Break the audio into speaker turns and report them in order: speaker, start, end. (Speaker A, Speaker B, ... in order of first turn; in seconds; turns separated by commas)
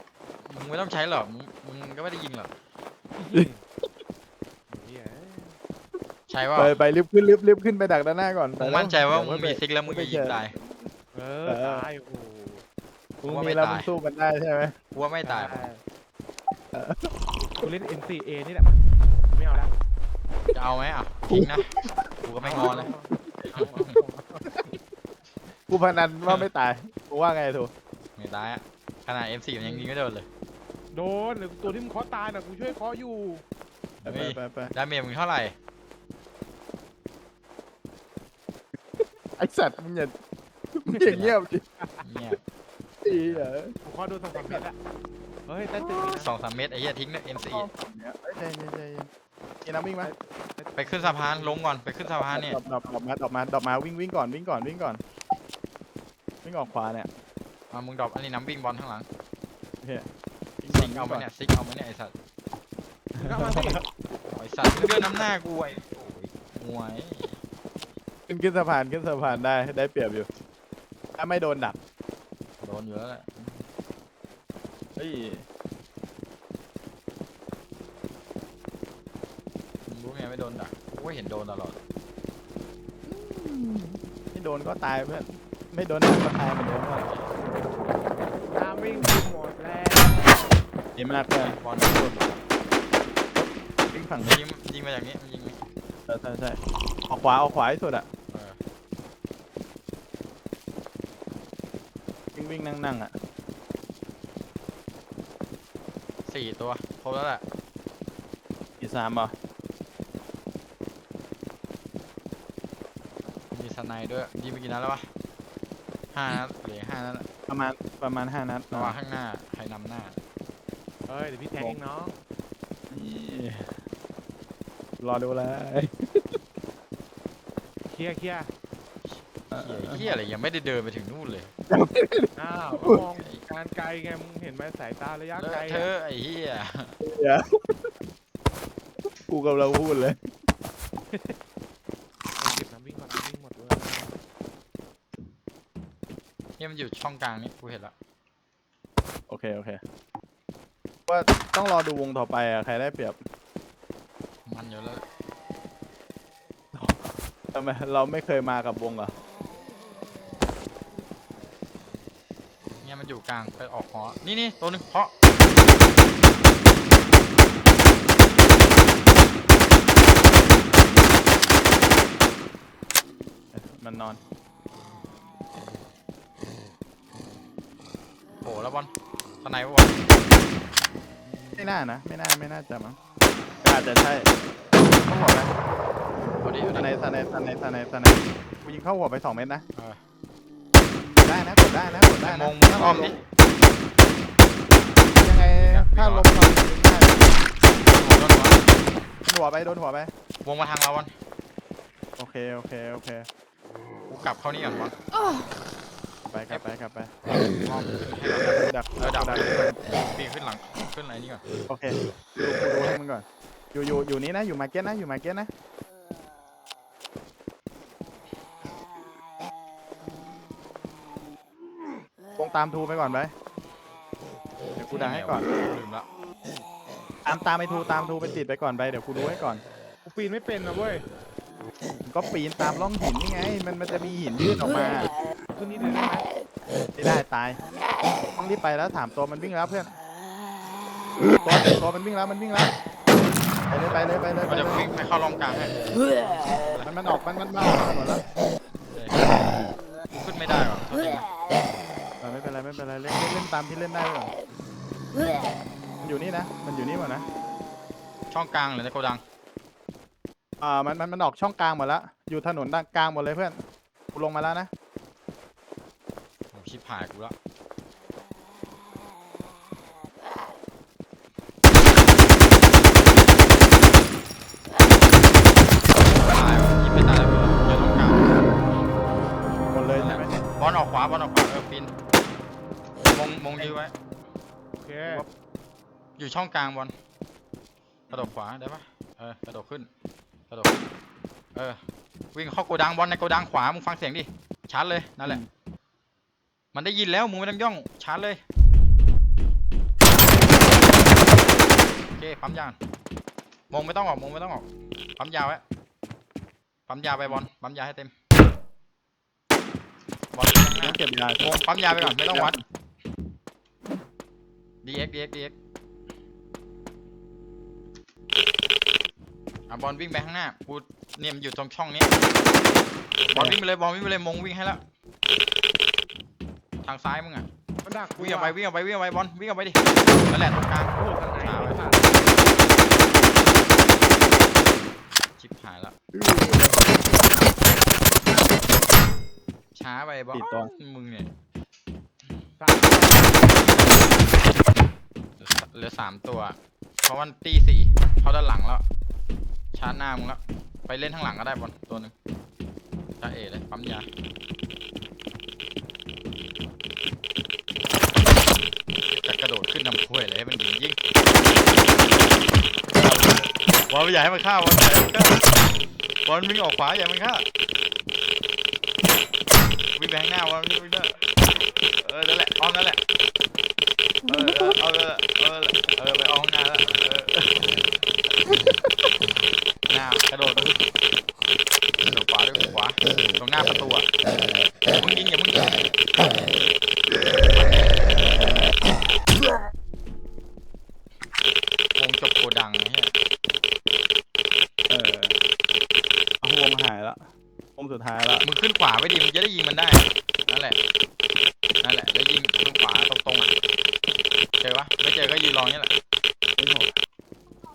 Speaker A: 0.4-2.5, Speaker B: 3.2-3.6, Speaker C: 3.3-3.9, Speaker B: 4.7-5.6, Speaker A: 6.3-6.8, Speaker C: 6.6-10.9, Speaker A: 8.6-10.6, Speaker B: 11.1-12.7, Speaker C: 11.4-11.8, Speaker A: 13.2-13.9, Speaker C: 13.2-14.8, Speaker A: 14.9-15.7, Speaker B: 15.2-15.8, Speaker C: 16.7-17.1, Speaker B: 17.5-18.8, Speaker B: 19.3-19.7, Speaker A: 20.5-21.7, Speaker C: 21.3-22.1, Speaker A: 22.2-22.9, Speaker B: 22.4-24.8, Speaker C: 23.2-23.7, Speaker A: 23.5-23.9, Speaker C: 25.7-27.7, Speaker A: 28.2-30.3, Speaker B: 29.6-29.9, Speaker B: 30.9-33.4, Speaker A: 34.0-35.6, Speaker C: 34.0-34.7, Speaker C: 39.0-40.1, Speaker C: 40.8-41.6, Speaker A: 41.0-41.4, Speaker A: 42.0-42.4, Speaker C: 43.0-43.8, Speaker A: 43.1-43.5, Speaker B: 43.8-44.8, Speaker C: 44.3-44.7, Speaker B: 45.5-46.3, Speaker A: 46.0-47.7, Speaker C: 47.4-49.1, Speaker C: 49.6-50.1, Speaker B: 50.0-51.6, Speaker A: 50.8-52.6, Speaker C: 52.3-55.0, Speaker C: 56.4-57.1, Speaker A: 57.7-59.1, Speaker C: 59.8-60.1, Speaker C: 60.6-61.3, Speaker A: 60.7-62.1, Speaker B: 63.2-63.8, Speaker C: 63.2-63.8, Speaker A: 64.3-67.4, Speaker C: 64.7-65.3, Speaker C: 68.3-70.3, Speaker C: 71.2-71.8, Speaker A: 72.6-73.6, Speaker C: 75.0-75.5, Speaker A: 79.9-81.8, Speaker C: 83.1-87.1, Speaker A: 86.9-87.3, Speaker B: 88.5-90.4, Speaker C: 91.0-92.3, Speaker A: 91.3-92.4, Speaker C: 93.9-94.4, Speaker A: 94.2-95.6, Speaker C: 96.1-98.1, Speaker A: 98.3-98.6, Speaker C: 102.3-103.1, Speaker A: 106.3-107.4, Speaker C: 108.8-109.3, Speaker A: 113.5-115.1, Speaker A: 116.1-117.3, Speaker C: 117.5-119.0, Speaker A: 118.7-120.2, Speaker B: 121.1-122.2, Speaker C: 122.9-123.8, Speaker C: 125.0-126.4, Speaker B: 127.9-128.5, Speaker A: 129.1-131.5, Speaker C: 129.5-130.1, Speaker C: 131.7-133.0, Speaker B: 132.4-135.9, Speaker A: 132.7-133.4, Speaker A: 135.4-137.0, Speaker C: 137.0-137.9, Speaker C: 139.3-140.2, Speaker B: 141.1-141.4, Speaker B: 142.4-144.1, Speaker A: 146.6-147.9, Speaker C: 149.3-149.8, Speaker C: 151.1-153.2, Speaker A: 154.5-155.1, Speaker C: 156.7-159.1, Speaker A: 162.8-165.1, Speaker C: 173.5-174.2, Speaker A: 178.4-180.1, Speaker C: 181.6-183.0, Speaker C: 183.6-185.5, Speaker A: 186.4-186.9, Speaker C: 186.6-189.6, Speaker C: 191.1-193.2, Speaker A: 192.2-193.2, Speaker C: 195.2-197.4, Speaker A: 195.6-196.3, Speaker A: 197.8-198.8, Speaker C: 199.3-200.1, Speaker A: 200.4-201.1, Speaker C: 202.2-203.3, Speaker A: 204.1-204.9, Speaker C: 206.3-207.1, Speaker A: 207.5-211.4, Speaker C: 208.7-209.8, Speaker C: 211.7-215.5, Speaker C: 222.4-223.3, Speaker C: 224.8-225.5, Speaker A: 224.9-226.1, Speaker C: 227.3-229.6, Speaker B: 230.1-231.1, Speaker C: 232.1-235.1, Speaker B: 235.6-236.3, Speaker C: 237.0-237.6, Speaker C: 238.4-240.0, Speaker C: 241.2-242.7, Speaker C: 243.7-244.8, Speaker A: 243.9-245.8, Speaker A: 246.5-246.9, Speaker C: 246.8-248.2, Speaker A: 248.9-251.3, Speaker C: 252.2-254.3, Speaker C: 256.0-257.3, Speaker A: 258.3-259.2, Speaker C: 260.6-263.6, Speaker C: 264.1-264.7, Speaker A: 266.5-267.4, Speaker A: 276.0-278.3, Speaker C: 279.6-280.4, Speaker A: 280.0-281.9, Speaker A: 283.1-283.9, Speaker B: 284.8-285.2, Speaker A: 286.2-286.9, Speaker A: 288.1-289.9, Speaker A: 290.5-290.8, Speaker A: 292.3-295.4, Speaker A: 296.7-298.4, Speaker A: 302.1-302.8, Speaker A: 303.7-305.6, Speaker A: 306.9-308.1, Speaker A: 310.3-312.6, Speaker C: 310.8-312.6, Speaker A: 314.8-315.6, Speaker A: 319.7-322.1, Speaker C: 323.3-323.6, Speaker A: 323.3-324.8, Speaker A: 326.8-327.5, Speaker B: 327.9-328.6, Speaker A: 328.1-332.0, Speaker B: 331.0-332.2, Speaker A: 335.4-335.9, Speaker C: 336.1-337.2, Speaker A: 339.8-341.3, Speaker C: 340.3-340.7, Speaker B: 342.6-343.7, Speaker A: 345.4-348.9, Speaker A: 349.7-352.1, Speaker A: 353.2-354.1, Speaker A: 359.1-361.0, Speaker C: 363.0-363.4, Speaker A: 363.9-365.5, Speaker A: 366.2-367.5, Speaker A: 370.0-371.2, Speaker A: 372.0-373.0, Speaker C: 374.3-374.7, Speaker A: 374.3-377.8, Speaker A: 379.9-380.8, Speaker A: 382.0-384.1, Speaker A: 384.9-385.8, Speaker A: 387.5-388.2, Speaker A: 392.0-393.1, Speaker C: 394.9-395.4, Speaker C: 396.4-398.5, Speaker A: 398.4-400.8, Speaker A: 401.8-403.5, Speaker A: 404.6-405.9, Speaker C: 406.6-406.9